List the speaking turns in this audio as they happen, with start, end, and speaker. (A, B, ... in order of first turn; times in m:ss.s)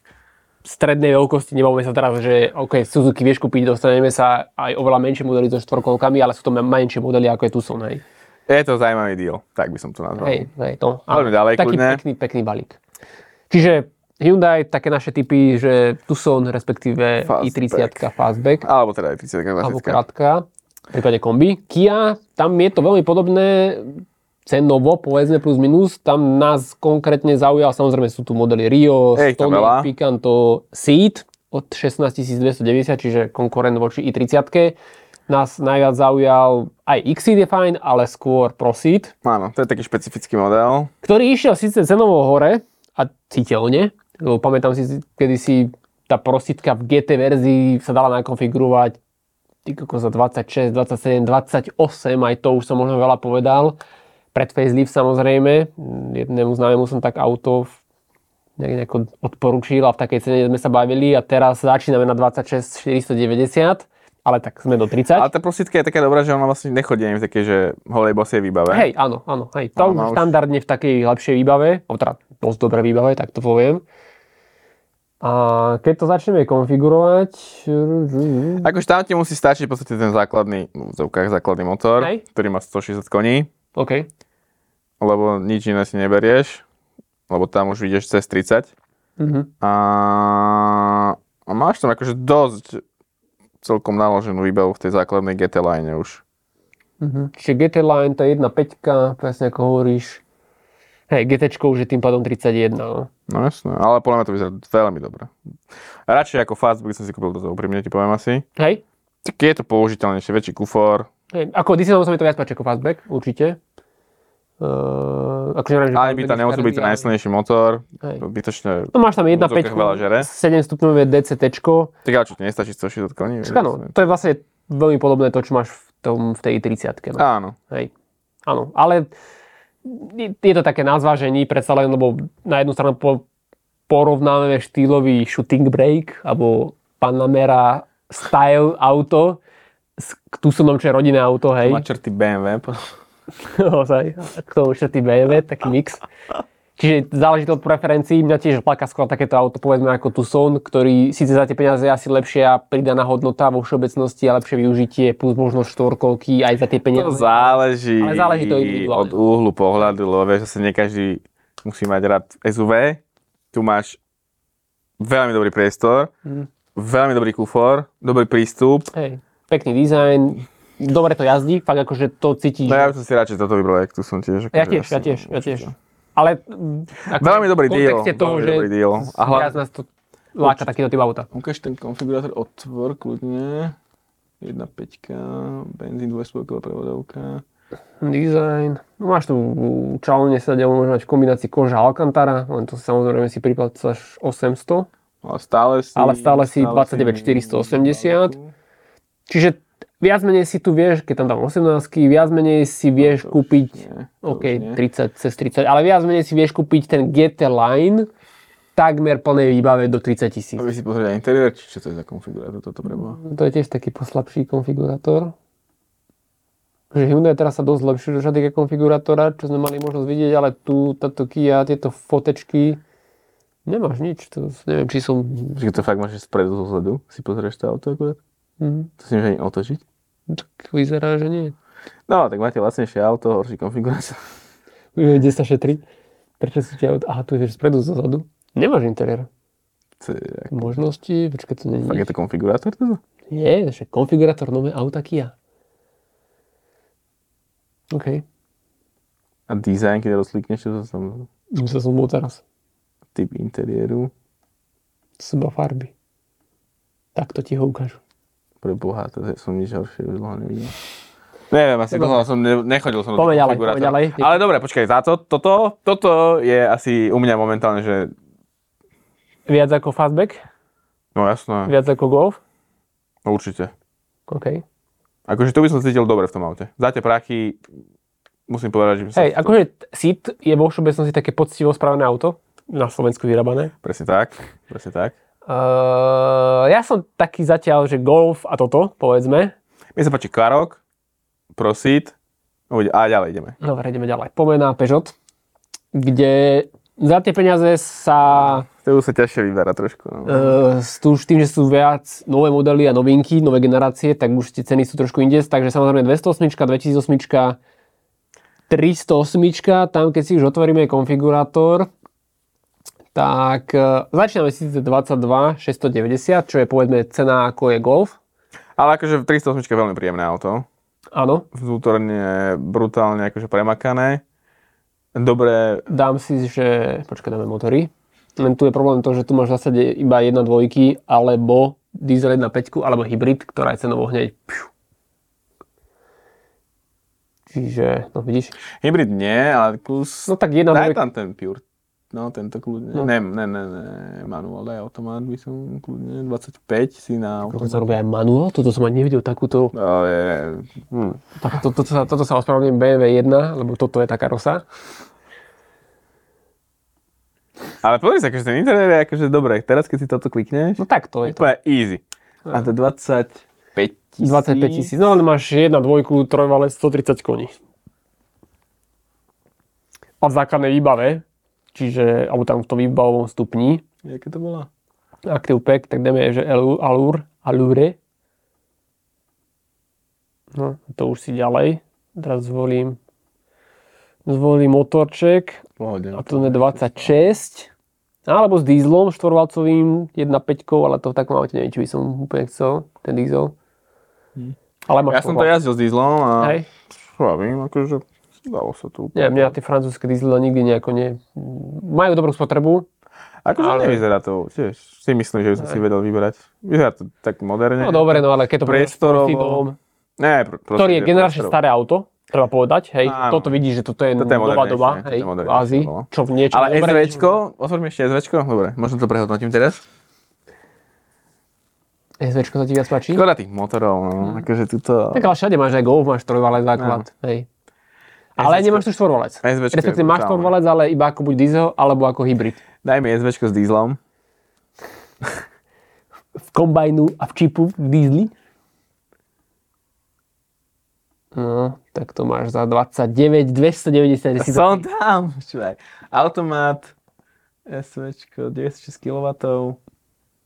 0:00.6-0:08.0 A
0:08.5-0:10.5 B
0:10.2-0:12.8 A
0:11.1-0:12.0 B
0:13.5-0:18.6 A
0:17.2-0:18.0 B
0:18.6-0:20.0 B
0:19.6-0:34.8 A
0:29.1-0:29.9 B
0:35.3-0:39.1 A
0:39.2-0:40.9 B
0:41.0-0:49.0 A
0:49.6-0:53.8 A
0:54.3-0:57.8 A
0:58.6-1:05.3 A
1:05.1-1:08.9 B
1:08.7-1:13.8 A
1:09.8-1:10.3 B
1:15.2-1:18.7 A
1:18.6-1:23.5 B
1:23.7-1:24.1 A
1:25.0-1:26.6 B
1:27.3-1:28.7 B
1:29.2-1:29.5 A
1:29.6-1:32.8 B
1:33.6-1:36.2 B
1:37.0-1:40.2 A
1:41.1-1:43.1 A
1:43.3-1:45.3 B
1:46.1-1:48.4 B
1:48.6-1:48.8 A
1:49.2-1:51.1 B
1:51.3-1:53.6 A
1:54.6-1:57.1 A
1:55.9-2:00.3 B
1:58.9-2:01.9 A
2:02.0-2:03.9 B
2:03.4-2:07.9 A
2:07.2-2:07.6 B
2:08.4-2:09.1 A
2:09.8-2:13.2 A
2:13.9-2:19.4 A
2:20.0-2:21.8 A
2:21.6-2:22.8 B
2:23.4-2:26.0 A
2:26.8-2:39.2 A
2:36.9-2:43.0 B
2:43.5-2:44.0 B
2:45.0-2:46.1 B
2:46.7-2:48.9 B
2:48.9-2:52.9 A
2:52.6-2:55.7 B
2:54.5-3:01.3 A
2:57.1-2:59.6 B
3:00.4-3:00.7 B
3:01.3-3:03.8 B
3:04.4-3:07.4 B
3:08.0-3:14.9 A
3:15.2-3:18.5 B
3:16.0-3:18.3 A
3:19.3-3:28.1 A
3:23.0-3:24.8 B
3:28.8-3:30.7 A
3:30.6-3:33.2 B
3:32.9-3:35.3 A
3:36.9-3:42.8 A
3:43.6-3:45.6 A
3:45.6-3:48.2 B
3:48.6-3:48.9 A
3:49.0-3:49.8 B
3:50.3-3:51.5 A
3:52.1-3:54.2 B
3:54.9-3:55.8 A
3:56.4-3:59.3 A
4:00.0-4:00.8 B
4:00.5-4:02.1 A
4:01.8-4:03.0 B
4:03.3-4:05.3 A
4:07.9-4:08.2 A
4:09.5-4:11.3 B
4:11.5-4:12.4 A
4:13.1-4:14.1 B
4:15.2-4:15.9 A
4:17.1-4:18.0 A
4:18.6-4:20.7 B
4:21.5-4:28.1 B
4:21.9-4:22.2 A
4:23.2-4:24.4 A
4:29.5-4:30.4 A
4:31.1-4:31.7 B
4:31.6-4:32.4 A
4:33.2-4:33.7 B
4:34.3-4:34.6 A
4:35.3-4:37.6 B
4:38.5-4:39.6 B
4:39.1-4:43.7 A
4:43.8-4:45.1 B
4:45.5-4:49.5 A
4:49.9-4:50.8 B
4:51.5-4:52.1 B
4:52.7-4:53.6 B
4:53.6-4:55.1 A
4:55.9-4:58.7 A
4:58.4-5:00.6 B
5:00.2-5:07.6 A
5:08.7-5:11.9 A
5:13.1-5:18.2 A
5:18.8-5:20.6 B
5:21.1-5:21.5 A
5:21.5-5:24.2 B
5:25.1-5:25.8 B
5:25.9-5:34.7 A
5:37.5-5:38.6 A
5:38.8-5:47.9 B
5:40.3-5:41.0 A
5:47.5-5:49.7 A
5:49.7-5:51.2 B
5:51.4-5:54.6 A
5:57.8-6:04.9 B
6:00.8-6:01.5 A
6:04.2-6:07.5 A
6:10.2-6:11.2 A
6:11.7-6:13.8 A
6:14.0-6:14.7 B
6:15.2-6:18.0 A
6:20.5-6:23.0 A
6:24.2-6:27.7 A
6:25.8-6:27.1 B
6:28.3-6:33.5 A
6:34.9-6:35.5 A
6:35.0-6:39.5 B
6:36.4-6:36.6 A
6:39.1-6:42.9 A
6:43.4-6:49.6 B
6:43.6-6:44.0 A
6:47.8-6:49.8 A
6:50.2-6:51.6 B
6:50.8-6:57.3 A
6:53.0-6:53.5 B
6:54.2-6:59.8 B
7:02.2-7:03.2 A
7:03.1-7:05.3 B
7:05.1-7:07.5 A
7:06.8-7:07.0 B
7:08.4-7:12.6 A
7:08.4-7:08.8 B
7:09.4-7:10.5 B
7:12.8-7:14.0 B
7:16.5-7:18.3 A
7:21.3-7:24.8 A
7:24.4-7:26.9 B
7:27.7-7:29.8 B